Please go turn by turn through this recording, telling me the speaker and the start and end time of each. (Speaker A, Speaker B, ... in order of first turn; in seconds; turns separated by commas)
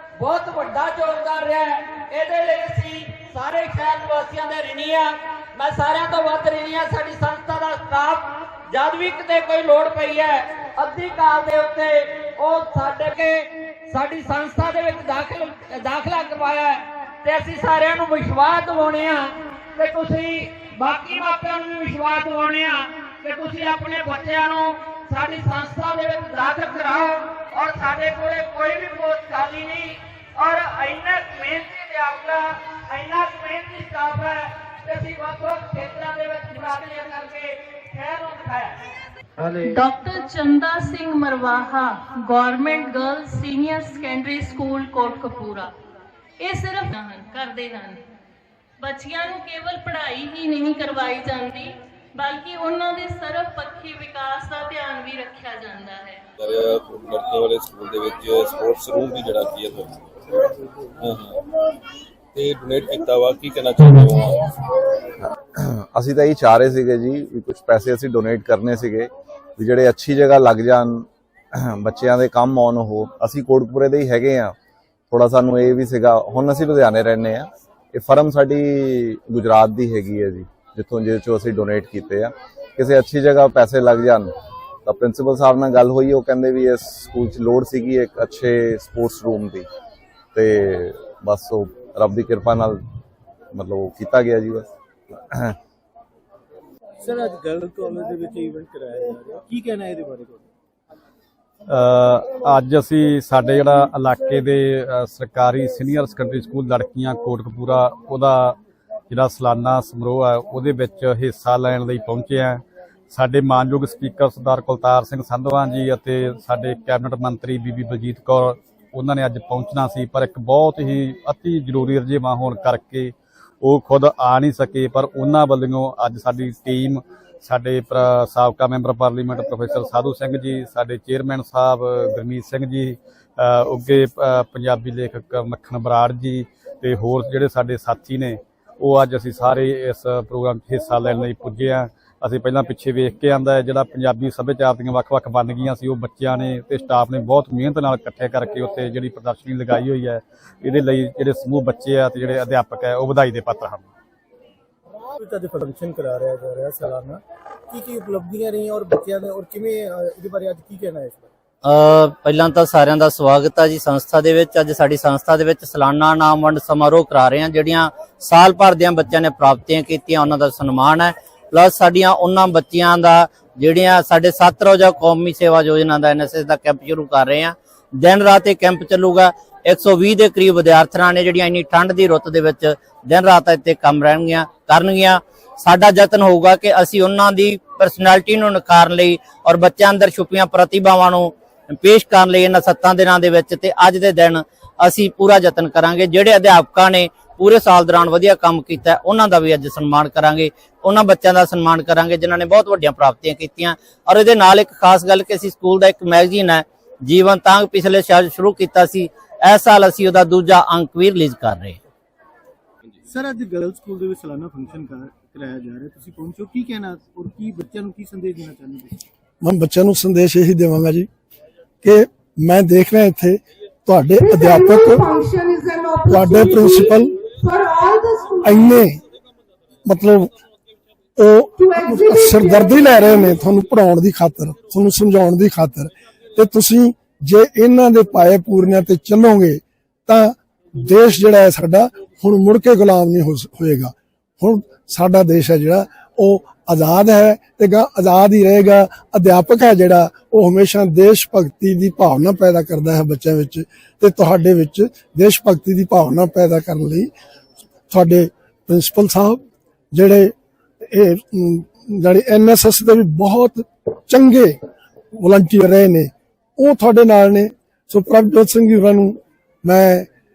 Speaker A: 0.2-38.8, Speaker B: 39.6-45.7, Speaker B: 46.4-48.0, Speaker B: 48.8-56.2, Speaker C: 56.4-60.0, Speaker C: 61.0-61.3, Speaker C: 62.3-64.3, Speaker D: 65.5-74.5, Speaker D: 75.1-84.3, Speaker D: 84.8-89.7, Speaker D: 90.3-92.8, Speaker D: 93.5-94.7, Speaker D: 95.3-95.6, Speaker E: 97.0-100.5, Speaker F: 101.7-108.6, Speaker F: 109.1-153.9, Speaker E: 155.2-161.3, Speaker G: 161.6-211.8, Speaker E: 213.1-219.0, Speaker H: 219.4-221.1, Speaker H: 221.8-225.2, Speaker A: 224.6-226.4, Speaker H: 226.0-227.2, Speaker A: 227.4-228.3, Speaker H: 228.4-229.0, Speaker H: 229.8-230.3, Speaker H: 231.2-257.1, Speaker H: 257.9-260.3, Speaker H: 260.9-264.6, Speaker H: 265.2-270.1